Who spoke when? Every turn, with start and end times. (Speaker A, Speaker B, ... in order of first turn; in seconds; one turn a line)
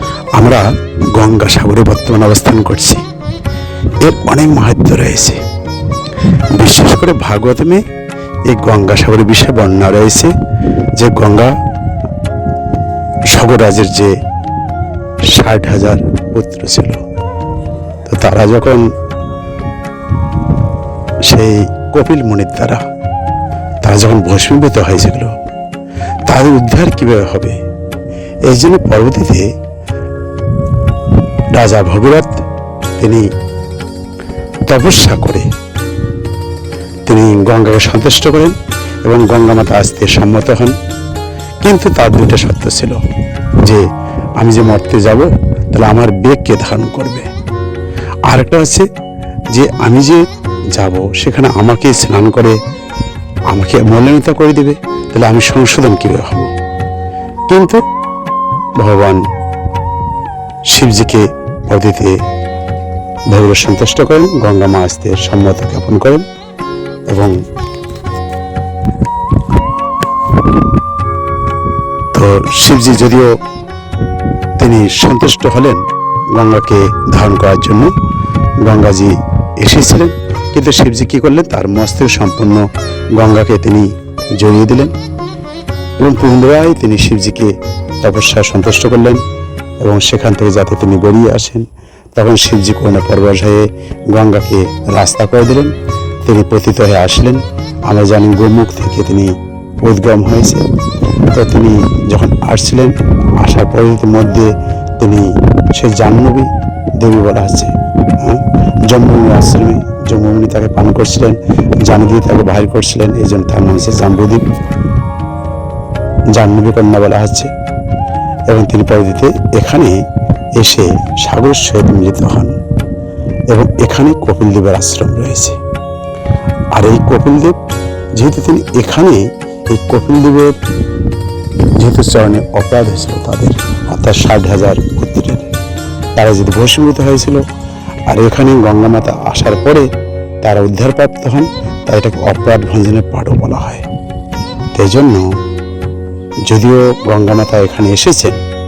Speaker A: 0.4-3.0
Speaker A: 4.0-5.4
Speaker A: 6.3-7.8
Speaker A: 8.5-10.3
Speaker A: 11.0-11.5
Speaker A: 13.3-14.2
Speaker A: 15.3-17.0
Speaker A: 18.1-18.9
Speaker A: 21.2-22.8
Speaker A: 23.8-25.3
Speaker A: 26.3-27.6
Speaker A: 28.5-29.5
Speaker A: 31.5-32.4
Speaker A: 33.0-33.3
Speaker A: 34.6-35.5
Speaker A: 37.1-40.7
Speaker A: 41.6-43.0
Speaker A: 44.4-47.3
Speaker A: 48.3-48.9
Speaker A: 49.5-50.2
Speaker A: 50.7-52.6
Speaker A: 53.5-56.5
Speaker A: 57.5-57.8
Speaker A: 58.8-59.2
Speaker A: 60.7-62.2
Speaker A: 63.3-66.2
Speaker A: 67.1-67.3
Speaker A: 72.1-73.3
Speaker A: 74.6-77.9
Speaker A: 78.6-84.9
Speaker A: 86.0-89.2
Speaker A: 89.8-95.7
Speaker A: 96.2-100.6
Speaker A: 101.3-114.5
Speaker A: 116.3-117.5
Speaker A: 118.5-120.0
Speaker A: 120.5-122.5
Speaker A: 123.5-125.6
Speaker A: 126.7-127.6
Speaker A: 128.2-130.6
Speaker A: 131.8-135.5
Speaker A: 136.1-137.4
Speaker A: 138.1-139.9
Speaker A: 140.4-143.8
Speaker A: 144.7-145.3
Speaker A: 146.4-148.4